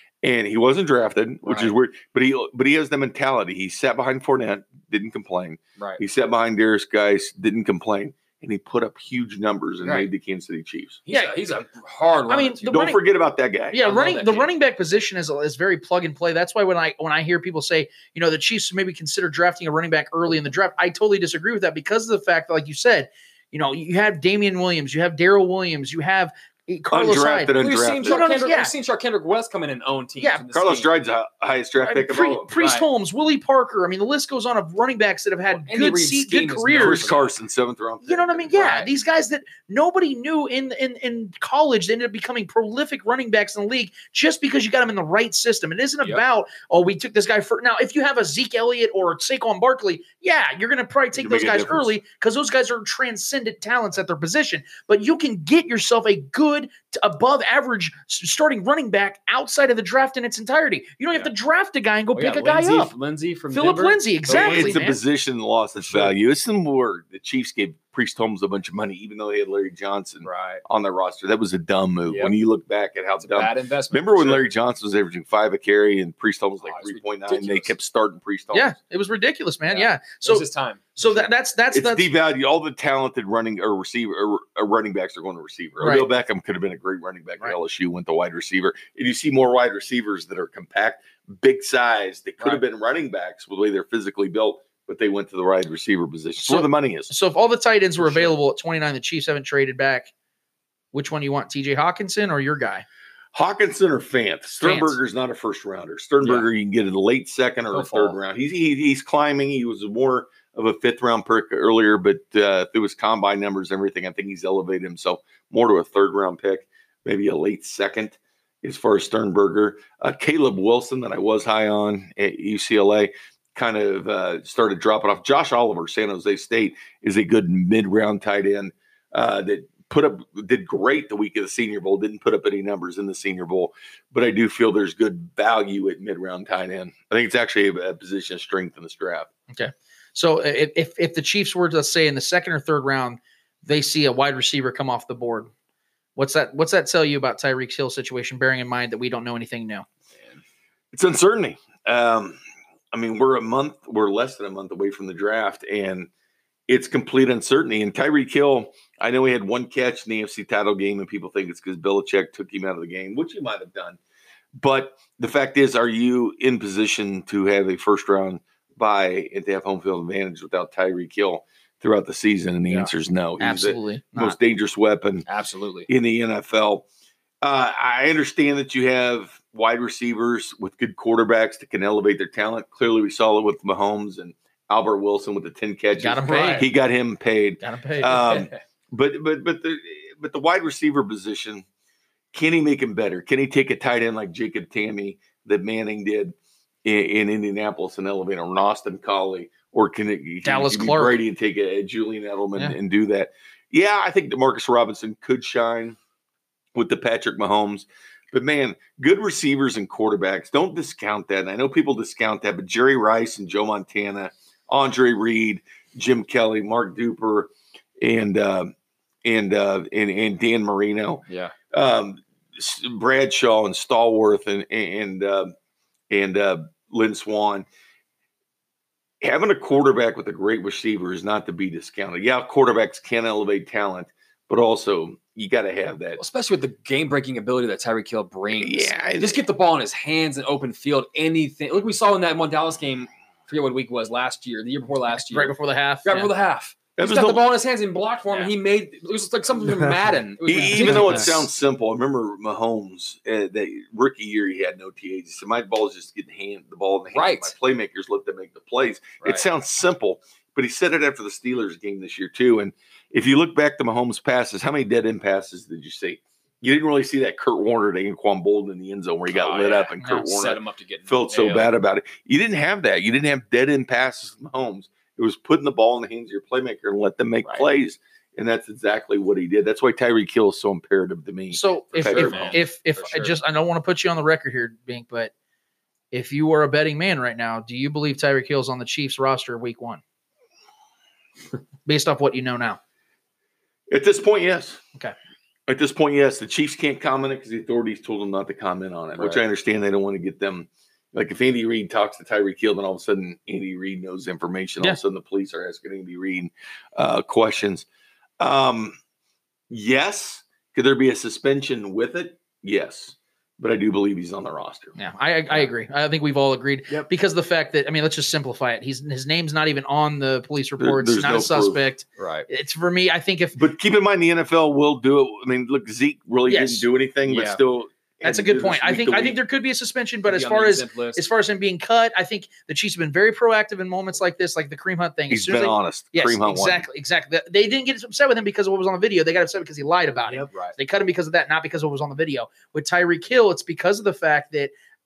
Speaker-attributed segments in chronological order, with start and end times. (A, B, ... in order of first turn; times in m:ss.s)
0:00.2-0:11.0 A
0:01.4-0:01.7 B
0:09.8-0:10.1 B
0:11.1-0:12.7 B
0:12.3-0:13.0 C
0:12.7-0:13.8 A
0:13.7-0:28.7 C
0:13.8-0:14.5 B
0:26.9-0:28.2 A
0:27.6-0:30.9 B
0:30.2-0:30.4 C
0:30.5-0:32.5 A
0:31.8-0:37.1 C
0:32.6-0:32.8 B
0:35.6-0:37.3 B
0:36.7-0:38.5 A
0:38.0-1:02.9 C
0:38.5-0:38.9 B
0:51.2-0:51.9 A
1:02.1-1:04.8 B
1:03.5-1:05.0 C
1:04.3-1:18.7 A
1:05.8-1:06.1 B
1:10.2-1:10.6 B
1:12.1-1:12.3 B
1:13.2-1:14.4 B
1:16.6-1:17.7 B
1:18.5-1:22.1 C
1:19.7-1:21.3 B
1:21.7-1:37.1 A
1:25.8-1:26.1 C
1:36.4-1:40.1 C
1:38.0-1:38.3 B
1:40.9-1:42.8 C
1:43.3-2:19.3 A
1:44.6-1:45.0 C
1:46.2-1:46.5 B
1:47.7-1:48.2 B
2:19.5-2:25.5 C
2:26.2-2:29.8 C
2:30.9-2:32.4 A
2:32.9-2:36.1 A
2:36.7-2:44.0 A
2:44.6-2:55.2 A
2:53.4-2:54.4 C
2:55.3-2:55.9 B
2:55.9-2:56.8 A
2:57.4-3:11.6 A
3:05.9-3:06.7 C
3:06.4-3:06.6 B
3:07.6-3:08.5 C
3:12.3-3:26.0 A
3:20.4-3:21.2 C
3:26.7-3:38.7 A
3:39.2-3:45.5 A
3:41.3-3:41.5 B
3:46.1-3:47.6 A
3:49.2-3:56.2 A
3:56.2-4:05.5 B
3:58.6-3:59.4 A
4:05.2-4:06.3 C
4:06.0-4:11.5 B
4:07.0-4:07.4 A
4:10.4-4:42.6 A
4:17.1-4:17.5 B
4:29.3-4:31.7 B
4:41.5-4:45.3 C
4:42.0-4:43.3 B
4:46.1-4:50.0 C
4:51.8-4:52.8 C
4:53.9-4:54.8 A
4:55.7-5:07.8 A
4:59.2-4:59.4 B
5:08.4-5:09.0 A
5:09.7-5:15.0 A
5:15.0-5:23.6 C
5:20.8-5:21.8 A
5:22.2-5:22.4 B
5:23.5-5:29.4 A
5:26.5-5:26.8 C
5:27.2-5:27.6 B
5:28.2-5:44.7 C
5:30.2-5:31.2 B
5:35.3-5:36.9 A